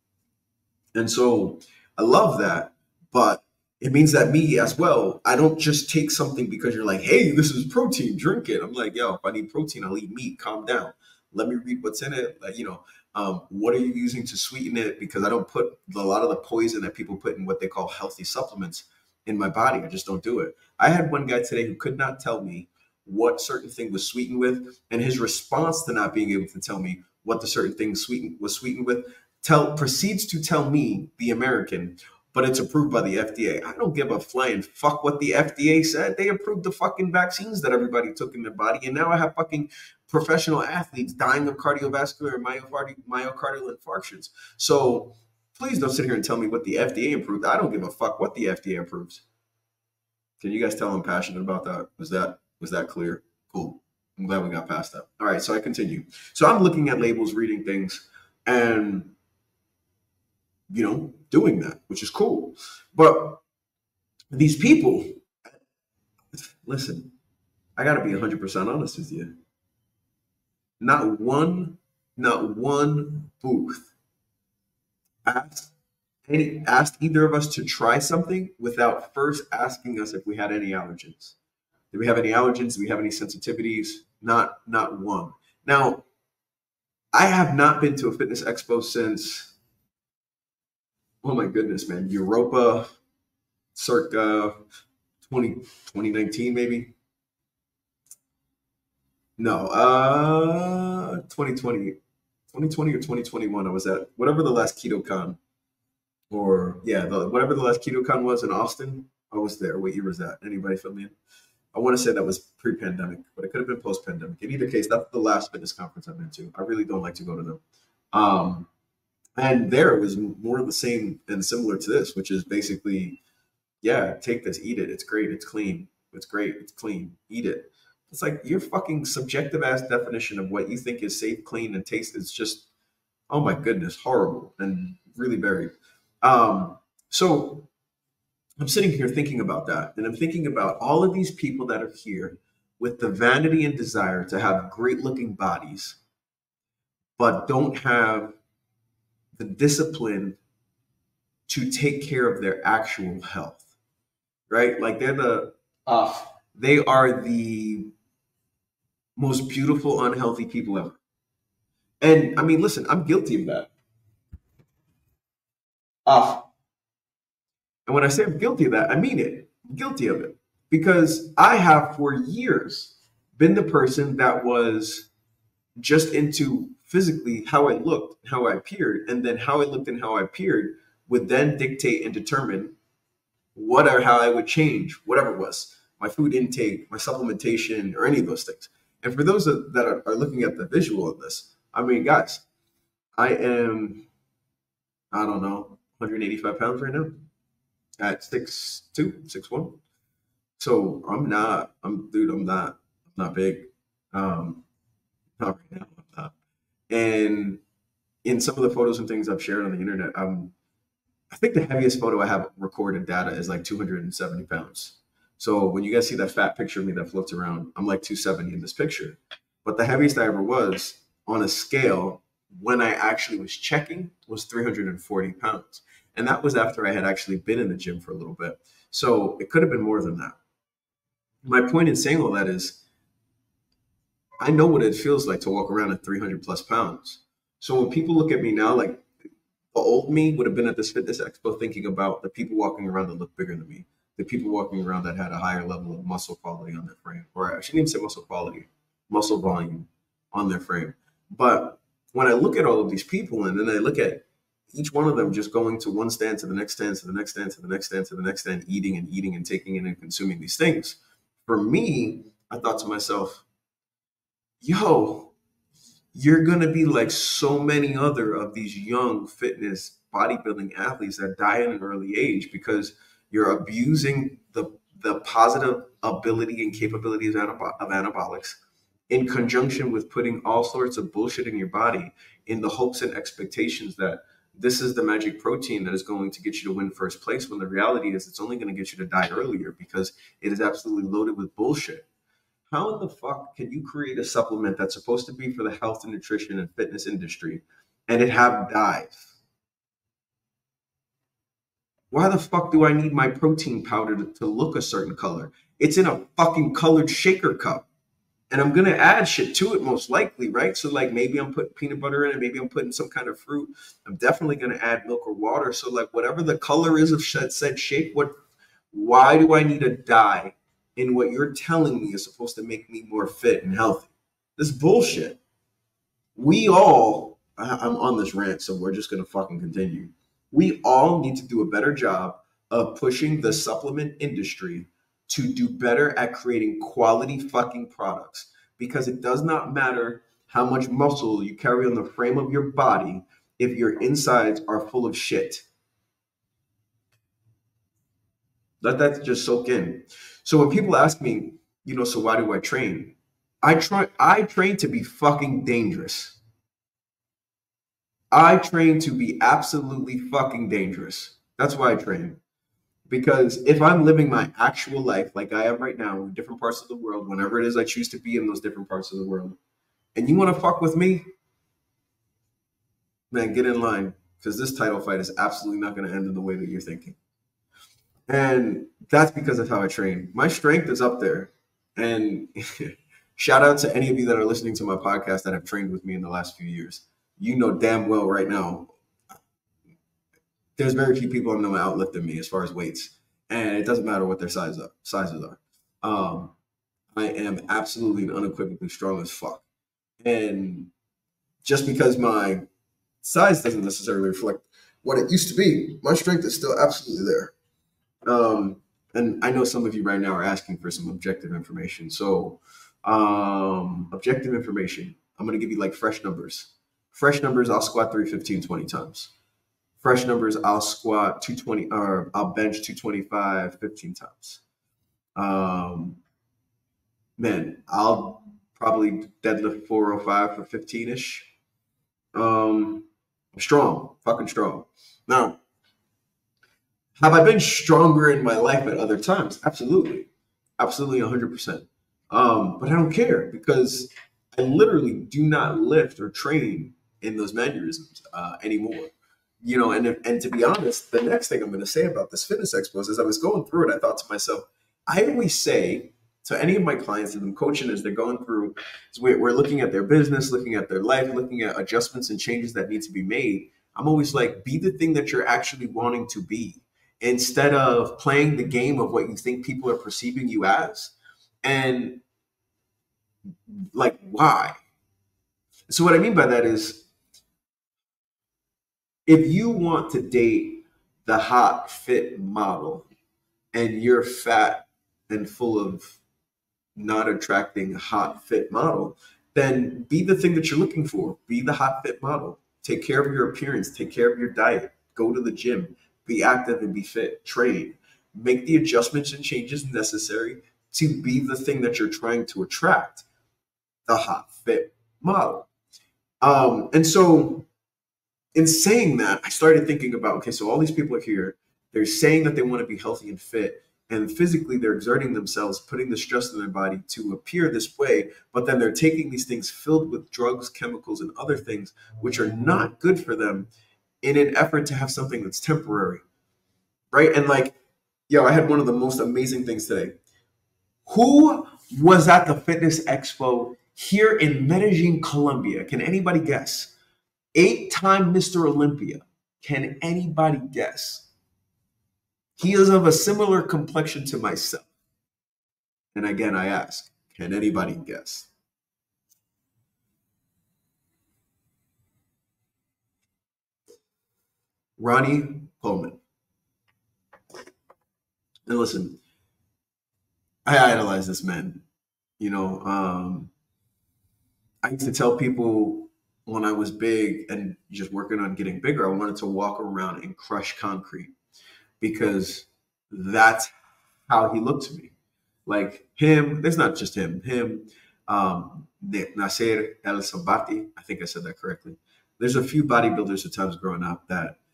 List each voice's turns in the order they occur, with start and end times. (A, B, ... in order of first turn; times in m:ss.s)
0:00.9-0:49.2 A
0:50.4-0:59.1 A
1:00.7-1:03.4 A
1:04.3-1:05.3 A
1:06.3-1:07.1 A
1:07.8-1:09.3 A
1:10.8-1:13.9 A
1:15.2-1:15.7 A
1:16.3-1:21.4 A
1:21.9-1:26.0 A
1:27.1-1:29.5 A
1:31.2-1:32.9 A
1:33.7-1:34.6 A
1:35.2-1:36.9 A
1:39.4-1:42.0 A
1:42.5-1:45.4 A
1:46.3-1:51.2 A
1:51.7-1:57.6 A
1:58.1-1:58.7 A
1:59.4-2:03.2 A
2:03.8-2:12.6 A
2:13.3-2:17.7 A
2:18.6-2:26.0 A
2:27.2-2:28.4 A
2:29.3-2:30.4 A
2:31.5-2:33.7 A
2:34.5-2:37.9 A
2:39.2-2:41.0 A
2:42.0-2:43.7 A
2:46.0-2:46.5 A
2:47.8-2:55.1 A
2:55.8-3:02.8 A
3:03.5-3:12.4 A
3:13.2-3:14.1 A
3:15.1-3:17.2 A
3:18.0-3:19.8 A
3:20.6-3:24.6 A
3:25.4-3:26.3 A
3:26.9-3:27.6 A
3:28.2-3:30.5 A
3:31.3-3:50.4 A
3:51.4-3:52.8 A
3:54.4-3:59.1 A
3:59.7-4:23.4 A
4:24.6-4:25.3 A
4:26.1-4:38.6 A
4:39.1-4:52.0 A
4:52.7-4:59.3 A
5:02.1-5:07.8 A
5:08.5-5:18.3 A
5:18.9-5:25.4 A
5:26.3-5:45.6 A
5:48.8-5:56.4 A
5:58.3-6:02.4 A
6:03.1-6:09.6 A
6:10.1-6:11.3 A
6:13.3-6:17.2 A
6:18.3-6:28.9 A
6:30.8-6:36.5 A
6:37.1-6:39.6 A
6:40.2-6:40.9 A
6:41.6-6:42.6 A
6:43.2-6:47.5 A
6:48.2-6:59.3 A
7:00.0-7:04.6 A
7:05.4-7:06.2 A
7:07.4-7:11.5 A
7:12.3-7:15.6 A
7:17.2-7:20.3 A
7:20.8-7:52.2 A
7:53.7-7:54.8 A
7:55.9-7:57.0 A
7:59.2-8:03.0 A
8:03.7-8:06.2 A
8:07.0-8:23.2 A
8:24.1-8:25.7 A
8:26.4-8:27.7 A
8:28.5-8:43.7 A
8:44.2-8:46.2 A
8:47.1-8:47.7 A
8:48.3-8:50.2 A
8:51.0-8:56.9 A
8:57.5-9:01.3 A
9:02.6-9:04.9 A
9:06.1-9:08.5 A
9:15.0-9:16.2 A
9:18.7-9:19.2 A
9:20.6-9:21.8 A
9:22.4-9:23.5 A
9:24.8-9:31.3 A
9:32.0-9:33.7 A
9:34.3-9:35.1 A
9:35.6-9:44.6 A